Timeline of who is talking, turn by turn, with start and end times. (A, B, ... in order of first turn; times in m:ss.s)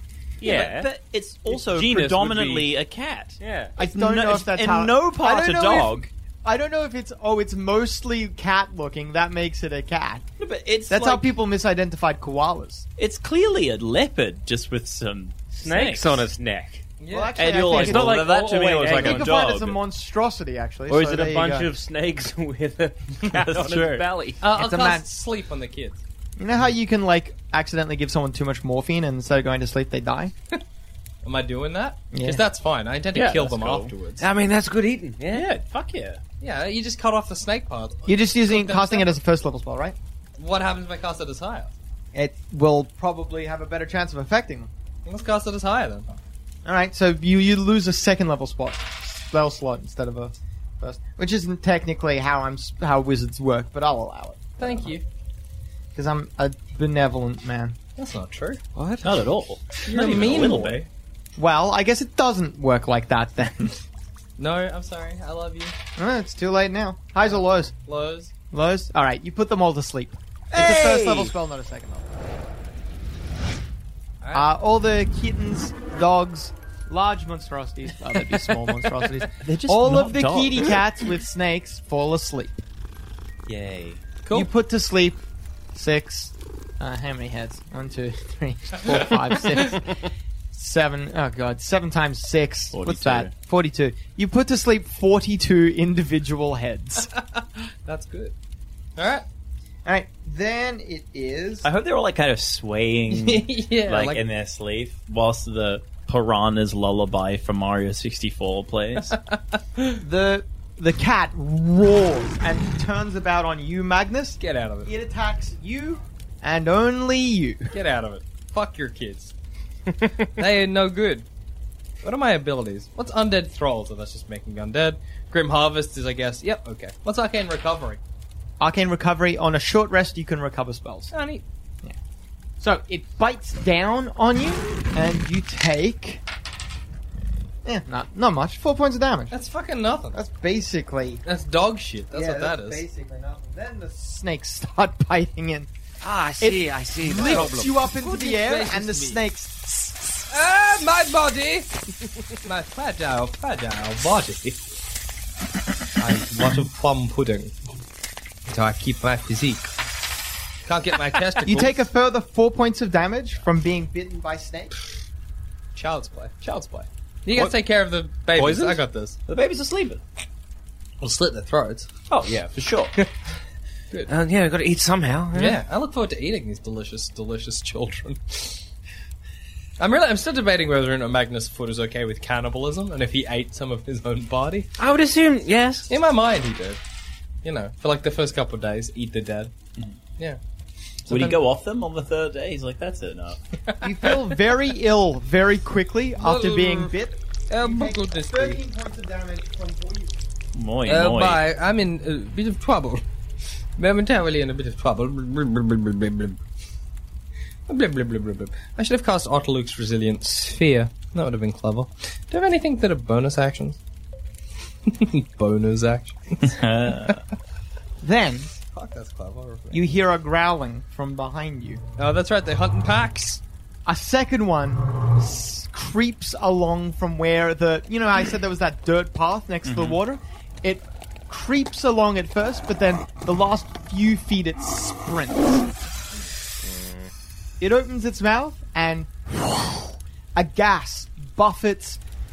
0:00.4-0:00.9 A
0:00.4-0:06.1 B
0:01.5-0:02.7 C
0:03.4-0:03.7 A
0:03.8-0:10.2 D
0:10.4-0:11.3 B
0:10.9-0:12.9 D
0:13.0-0:16.3 B
0:15.6-0:16.8 A
0:15.7-0:16.2 E
0:17.0-0:17.4 C
0:17.1-0:18.2 D
0:17.4-0:19.8 B
0:17.6-0:19.4 A
0:18.9-0:21.7 D
0:20.9-0:22.1 A
0:21.2-0:23.0 E
0:23.2-0:24.1 B
0:23.3-0:24.4 A
0:24.4-0:26.0 C
0:24.5-0:25.1 D
0:26.4-0:30.3 D
0:31.2-0:34.2 C
0:32.1-0:32.4 D
0:33.1-0:33.9 B
0:34.2-0:35.5 E
0:35.3-0:36.2 B
0:36.4-0:39.1 C
0:38.1-0:40.0 D
0:40.4-0:41.7 C
0:42.1-0:44.7 D
0:45.0-0:46.1 C
0:46.6-0:54.9 D
0:54.6-0:55.0 C
0:55.9-0:57.8 D
0:58.0-0:58.6 C
0:58.8-0:59.1 E
0:59.0-1:00.8 B
0:59.8-1:00.9 C
1:01.4-1:03.8 D
1:04.4-1:05.7 C
1:06.0-1:07.7 D
1:07.3-1:08.3 C
1:08.5-1:12.1 D
1:10.5-1:11.3 B
1:14.2-1:14.5 C
1:14.3-1:22.6 D
1:19.4-1:20.8 B
1:23.5-1:24.0 B
1:24.2-1:24.5 C
1:24.3-1:25.2 D
1:25.7-1:37.1 D
1:32.7-1:33.3 B
1:37.1-1:38.3 C
1:39.0-1:39.2 C
1:39.8-1:41.7 D
1:41.6-1:49.2 B
1:43.1-1:44.2 C
1:49.1-1:50.0 C
1:50.0-1:57.7 D
1:54.4-1:54.9 C
1:57.7-1:59.3 C
2:00.4-2:01.3 C
2:02.0-2:08.0 C
2:08.6-2:11.1 D
2:11.1-2:11.4 C
2:12.6-2:16.2 D
2:17.6-2:19.3 D
2:19.3-2:20.2 C
2:20.1-2:21.2 D
2:21.2-2:22.8 C
2:22.1-2:25.7 D
2:26.0-2:27.8 E
2:26.4-2:30.2 D
2:27.2-2:29.3 C
2:30.3-2:31.8 C
2:32.4-2:34.6 C
2:36.0-2:37.5 C
2:38.5-2:39.7 C
2:40.6-2:41.8 C
2:41.4-2:44.7 D
2:45.7-2:49.2 C
2:48.3-2:50.0 B
2:51.0-2:51.9 C
2:52.1-2:52.9 B
2:54.1-2:55.6 E
2:55.3-2:58.6 C
2:59.8-3:04.7 C
3:04.8-3:05.9 E
3:05.9-3:06.8 C
3:07.4-3:09.5 C
3:11.1-3:13.4 B
3:11.1-3:11.4 C
3:13.8-3:20.1 D
3:16.2-3:17.0 C
3:17.5-3:18.6 C
3:20.5-3:21.4 B
3:20.8-3:23.0 C
3:23.8-3:26.4 C
3:27.7-3:33.8 C
3:34.8-3:36.6 C
3:36.4-3:37.2 B
3:38.0-3:38.5 D
3:38.7-3:39.9 C
3:39.7-3:41.8 D
3:42.0-3:43.4 C
3:43.8-3:55.6 D
3:49.6-3:50.0 B
3:57.6-3:59.1 D
4:00.4-4:02.0 D